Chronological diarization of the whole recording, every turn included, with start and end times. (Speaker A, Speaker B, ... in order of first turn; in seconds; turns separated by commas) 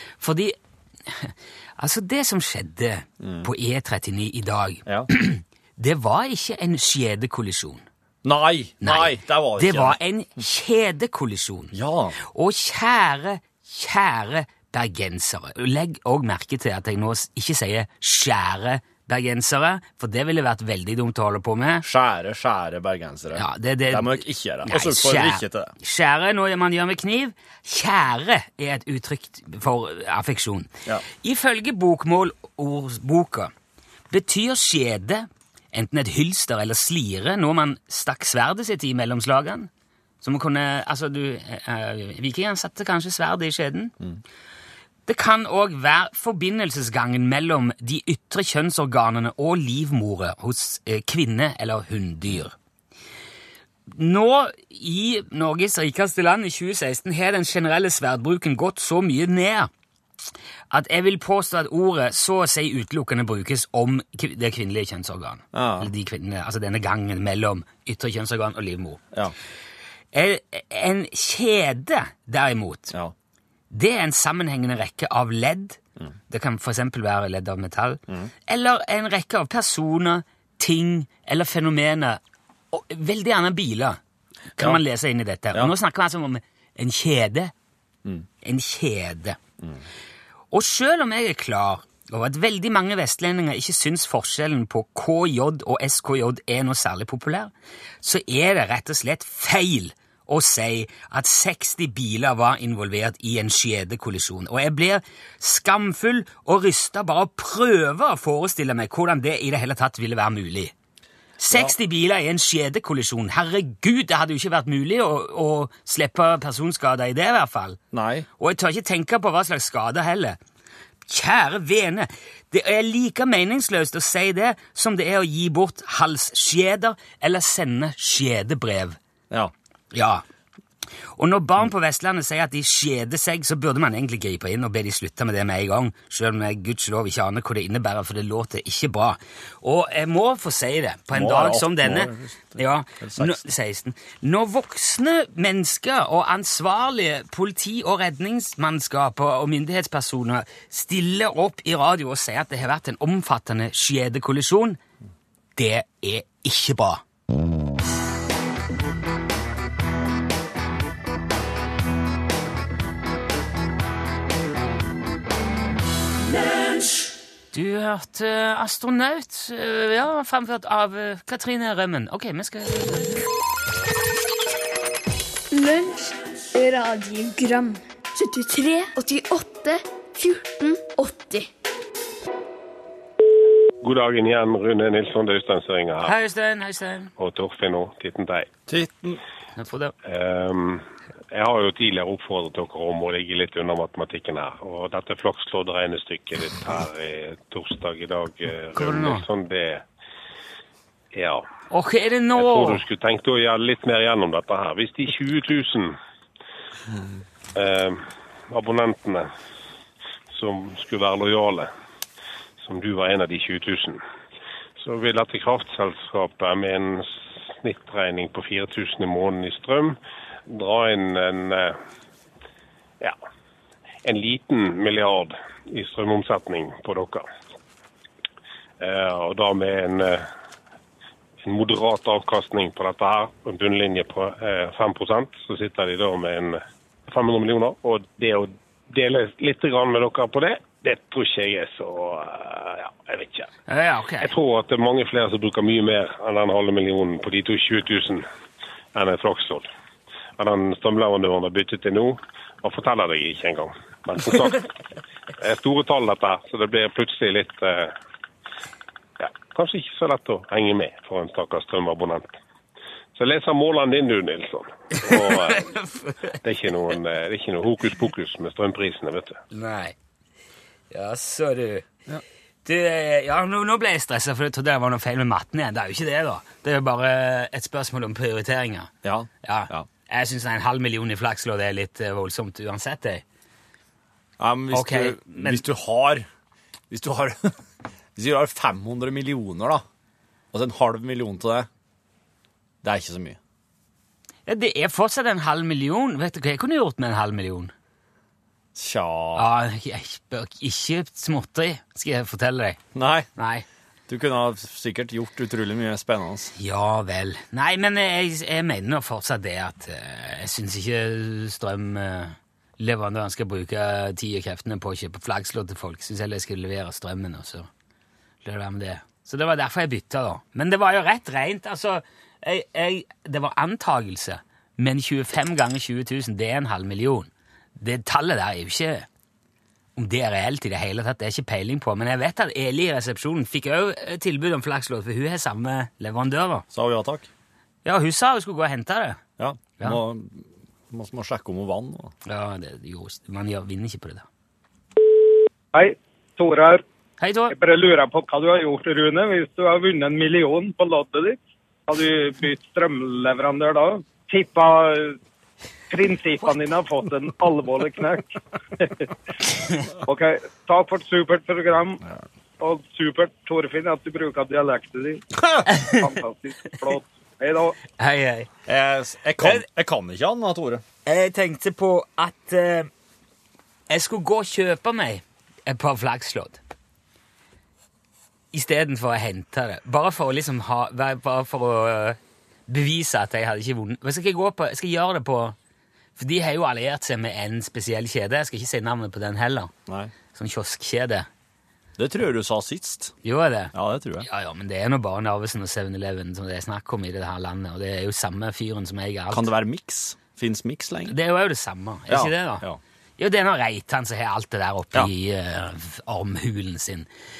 Speaker A: 0.2-0.6, Speaker A: 1.1-7.8, Speaker B: 3.2-3.5, Speaker B: 8.2-10.0, Speaker A: 8.8-11.7, Speaker B: 11.7-12.2, Speaker A: 12.2-21.8, Speaker B: 21.8-25.7, Speaker A: 23.4-33.5, Speaker A: 34.1-39.7, Speaker A: 40.2-43.9, Speaker A: 45.1-52.5, Speaker A: 53.9-59.7, Speaker A: 60.7-69.0, Speaker B: 65.5-65.9, Speaker A: 70.1-72.9, Speaker A: 73.7-82.2, Speaker A: 82.7-84.0, Speaker A: 84.6-87.5, Speaker A: 88.4-89.4, Speaker A: 90.5-110.7, Speaker A: 111.4-117.8, Speaker B: 111.5-111.7, Speaker B: 117.9-118.3, Speaker A: 118.4-120.4, Speaker A: 121.1-129.0, Speaker A: 129.9-130.2, Speaker A: 131.2-154.8, Speaker B: 141.1-143.4, Speaker A: 155.6-157.0, Speaker A: 167.5-173.2, Speaker C: 175.5-181.5, Speaker D: 183.8-186.2, Speaker A: 186.0-187.1, Speaker D: 187.2-188.5, Speaker B: 188.7-189.2, Speaker A: 189.6-189.9, Speaker D: 190.0-199.8, Speaker A: 198.7-199.2, Speaker D: 201.1-201.4, Speaker A: 201.7-202.8, Speaker D: 202.3-206.0, Speaker D: 207.5-209.3, Speaker D: 210.3-211.7, Speaker D: 212.6-214.0, Speaker D: 214.8-220.0, Speaker D: 220.5-221.8, Speaker D: 224.0-227.2, Speaker D: 228.8-230.3, Speaker D: 231.4-243.5, Speaker A: 243.7-244.3, Speaker D: 244.2-248.2, Speaker D: 248.9-249.7, Speaker D: 250.4-254.7, Speaker D: 255.4-257.9, Speaker D: 259.2-262.4, Speaker D: 263.1-265.7, Speaker A: 265.1-266.4, Speaker D: 266.4-269.4, Speaker A: 269.5-269.9, Speaker A: 270.9-272.0, Speaker A: 272.6-278.9, Speaker B: 279.0-279.9, Speaker A: 279.4-283.2, Speaker B: 284.4-286.2, Speaker A: 284.7-285.6, Speaker B: 286.9-287.5, Speaker B: 288.1-289.8, Speaker B: 290.5-291.7, Speaker B: 292.8-293.4, Speaker A: 294.5-297.7, Speaker B: 298.7-299.5, Speaker A: 299.4-302.8, Speaker B: 302.9-303.3, Speaker A: 303.4-303.6, Speaker B: 304.1-306.5, Speaker A: 306.5-317.7, Speaker A: 318.4-329.1, Speaker A: 329.9-336.6, Speaker B: 336.7-337.3, Speaker A: 337.8-339.2, Speaker B: 339.4-342.1, Speaker A: 342.2-344.3, Speaker E: 345.7-346.8, Speaker A: 347.2-347.5, Speaker E: 347.5-355.2, Speaker E: 355.9-359.1, Speaker E: 360.0-362.0, Speaker E: 362.6-367.8, Speaker A: 365.7-366.0, Speaker A: 368.0-368.5, Speaker B: 368.6-370.8, Speaker A: 369.4-369.6, Speaker A: 371.0-372.9, Speaker A: 373.9-376.6, Speaker A: 378.5-385.6, Speaker A: 386.2-389.7, Speaker B: 389.9-390.1, Speaker A: 390.3-391.3, Speaker B: 392.0-393.1, Speaker A: 393.2-399.5, Speaker B: 393.7-394.3, Speaker B: 399.3-401.1, Speaker A: 401.1-402.6, Speaker B: 402.1-402.8, Speaker A: 403.2-407.1